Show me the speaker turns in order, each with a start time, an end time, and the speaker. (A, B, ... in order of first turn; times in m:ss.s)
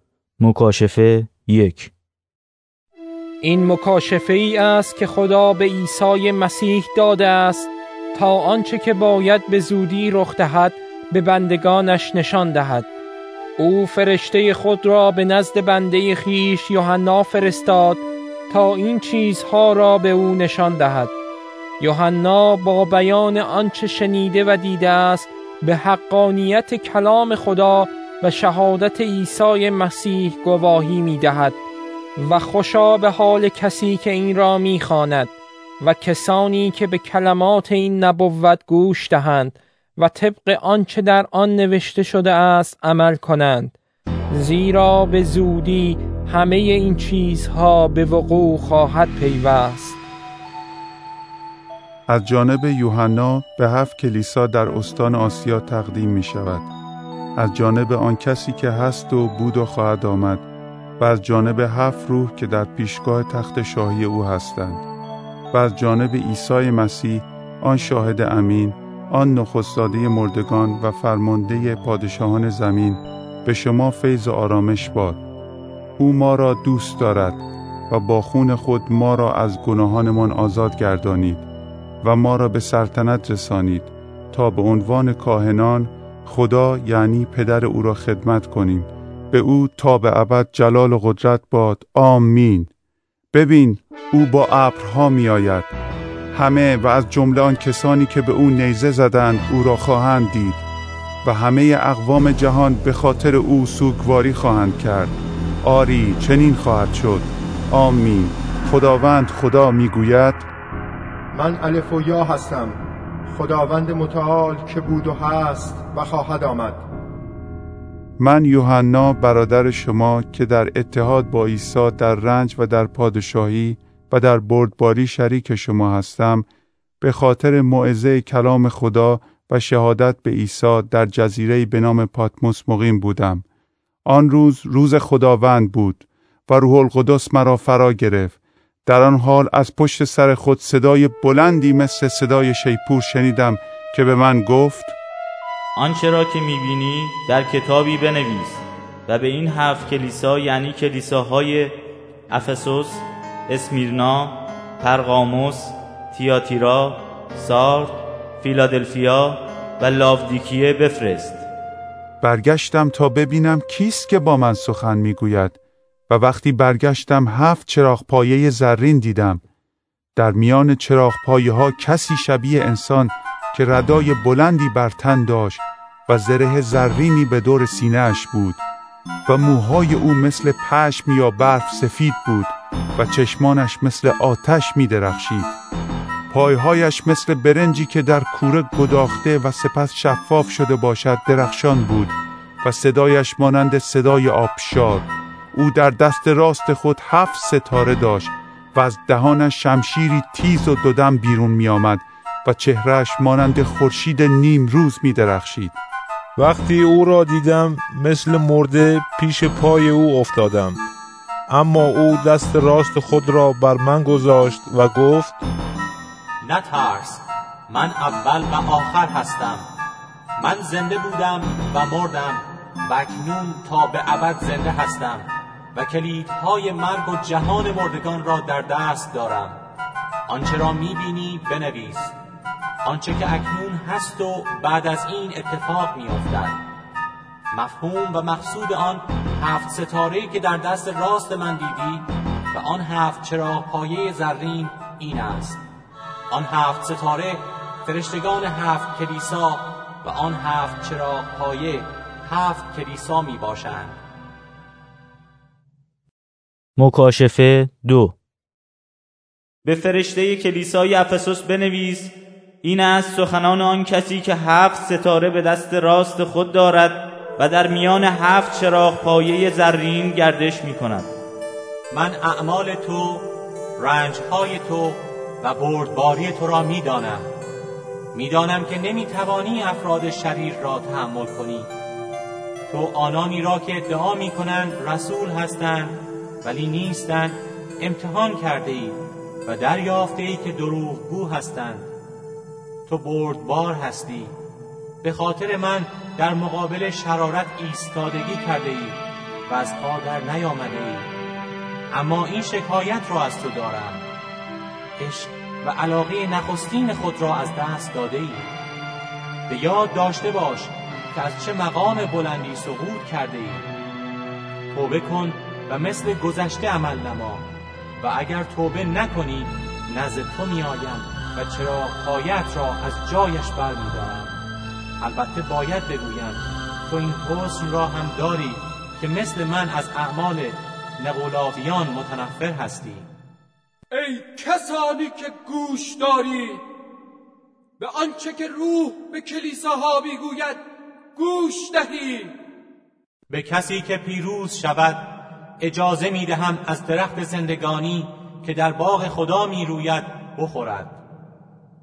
0:00.4-0:01.9 A
0:03.4-0:12.9 B
0:13.6-0:21.1 B
0:21.8-0:31.6 B
0:32.2-0:43.7 B
0:44.3-0:50.0 B
0:52.1-0:56.7 C
0:57.4-1:00.4 C
1:01.0-1:04.8 C
1:05.5-1:15.2 C
1:16.0-1:21.5 C
1:22.0-1:32.7 C
1:33.3-1:35.7 C
1:36.3-1:40.6 C
1:41.2-1:50.5 C
1:51.3-1:56.8 D
1:58.2-2:06.5 C
2:07.0-2:13.4 C
2:14.0-2:25.0 C
2:25.8-2:31.7 A
2:32.3-2:41.4 A
2:42.2-2:45.6 C
2:46.1-2:49.4 C
2:50.2-2:58.6 C
2:59.2-3:05.5 C
3:06.3-3:25.8 C
3:26.4-3:30.8 E
3:31.5-3:35.4 E
3:36.4-3:39.6 F
3:40.4-3:49.6 F
3:50.3-3:52.1 F
3:52.8-3:56.6 F
3:57.5-4:05.6 F
4:06.3-4:14.0 F
4:16.8-4:18.1 A
4:19.6-4:22.1 A
4:22.6-4:31.1 A
4:31.9-4:33.2 F
4:33.8-4:37.3 F
4:38.1-4:41.7 F
4:42.7-4:51.9 F
4:52.9-4:54.3 F
4:55.0-4:59.0 F
4:59.5-5:01.1 F
5:01.9-5:04.0 F
5:05.0-5:08.5 F
5:09.5-5:13.6 F
5:14.7-5:17.4 F
5:18.0-5:24.3 F
5:25.0-5:33.1 F
5:33.9-5:36.6 G
5:37.8-5:40.6 G
5:41.1-5:42.3 G
5:43.3-5:45.0 F
5:45.6-5:51.0 F